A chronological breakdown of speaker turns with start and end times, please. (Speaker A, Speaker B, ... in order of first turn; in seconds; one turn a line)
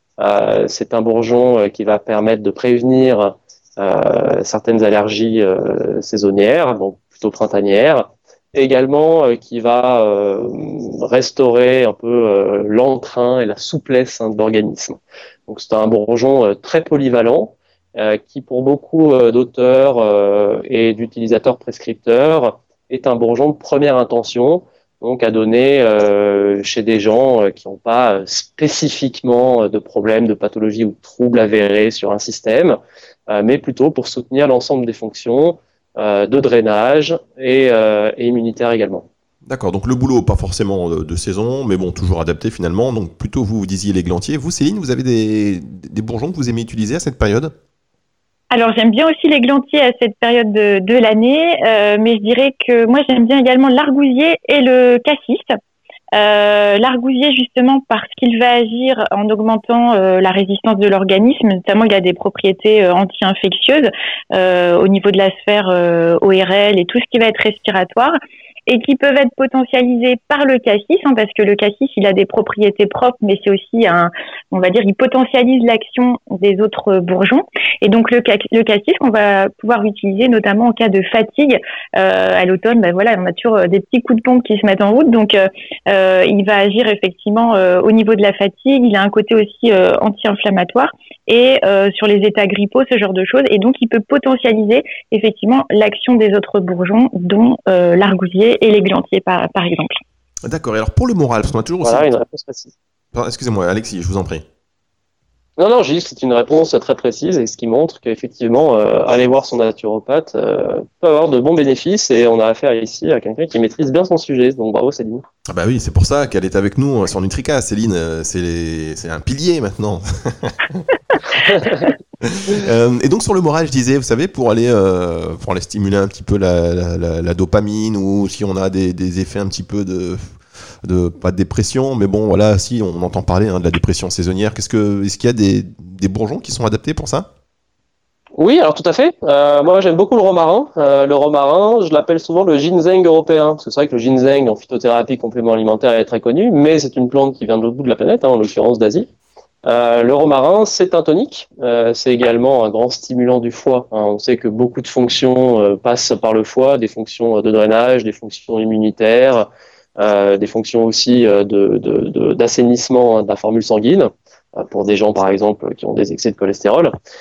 Speaker A: 0.2-39.1
Speaker B: 39.5-47.5
Speaker C: 48.5-55.6
Speaker C: 56.1-68.2
Speaker C: 68.7-100.0
Speaker B: 100.5-102.1
Speaker A: 101.8-102.7
Speaker B: 103.1-104.4
Speaker A: 105.6-115.2
Speaker B: 115.5-120.9
Speaker A: 121.4-121.9
Speaker B: 122.2-137.3
Speaker A: 138.4-149.1
Speaker A: 149.6-166.9